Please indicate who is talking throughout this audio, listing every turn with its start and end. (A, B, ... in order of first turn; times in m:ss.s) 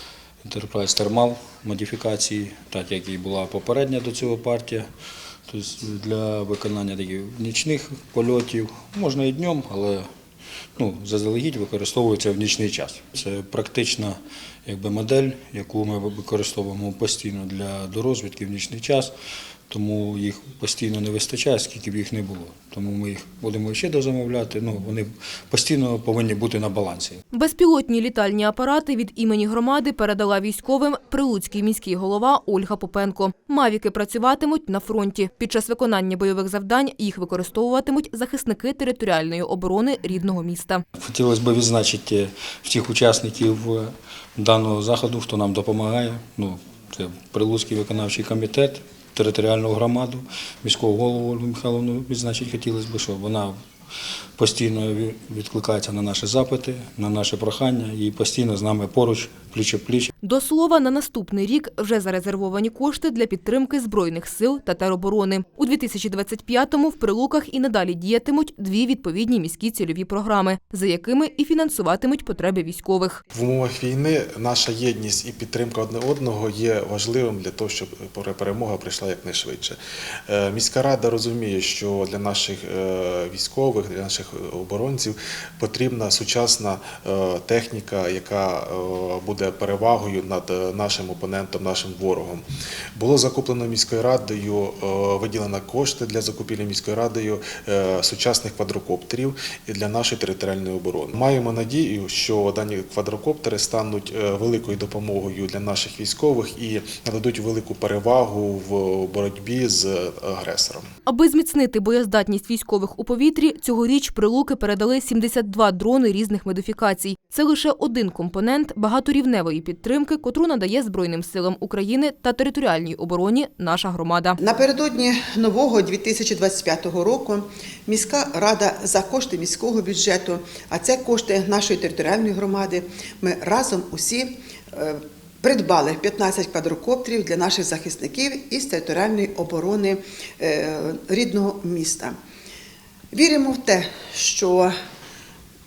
0:00.4-0:04.9 A
0:05.5-0:10.1 A
0:10.8-0:19.1 A
0:19.7-0:27.2 A
0:27.3-0:40.8 B
0:41.0-0:53.6 A
0:54.4-1:00.1 A
1:00.2-1:13.2 B
1:13.3-1:32.4 C
1:33.0-1:50.9 C
1:51.1-2:04.4 B
2:04.4-2:22.2 D
2:23.1-2:24.7 D